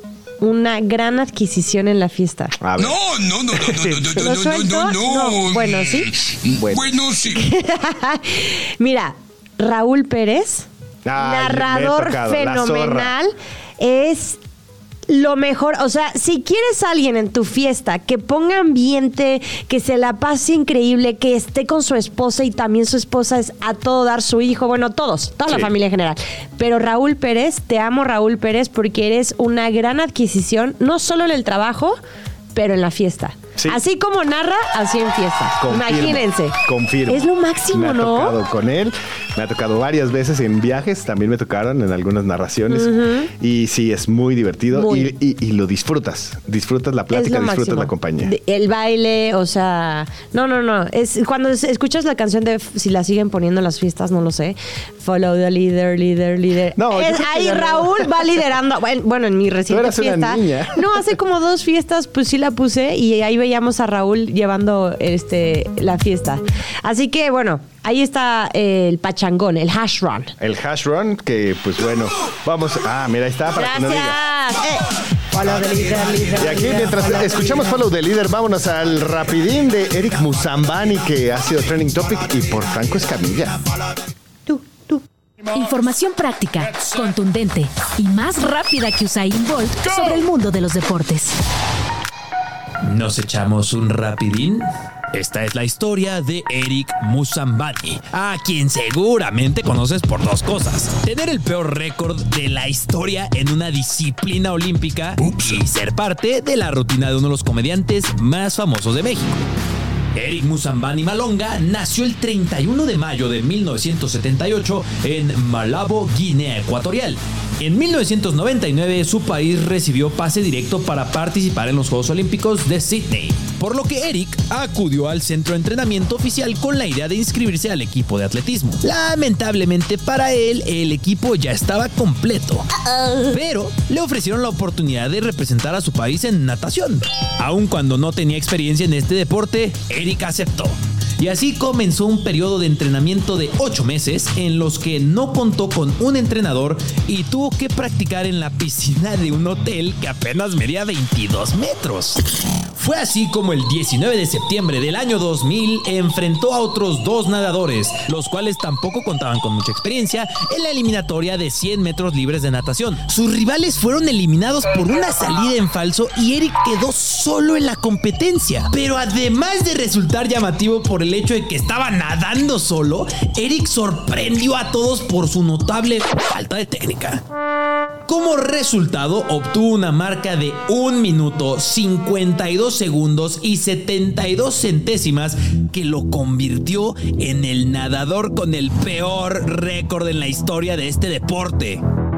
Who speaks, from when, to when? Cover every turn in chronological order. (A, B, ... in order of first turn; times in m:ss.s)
0:00.4-0:02.6 A
0:02.6-0:03.0 B
0:02.8-0:07.4 C
0:03.6-0:04.1 B
0:04.1-0:06.1 A
0:06.6-0:06.9 B
0:07.3-0:14.4 A
0:11.0-0:13.1 B
0:15.1-0:32.0 A
0:32.5-0:38.4 A
0:35.6-0:48.3 B
0:42.7-0:43.3 A
0:44.7-0:45.1 A
0:47.1-1:10.3 A
0:56.8-0:58.4 B
0:59.7-1:01.1 B
1:10.4-1:14.2 B
1:13.5-1:17.8 A
1:16.4-1:23.6 B
1:24.5-1:25.0 A
1:25.5-1:31.4 D
1:32.8-1:49.4 E
1:45.2-1:45.6 C
1:50.1-2:12.7 E
2:13.2-2:32.2 E
2:32.7-2:57.2 E
2:58.1-3:11.8 E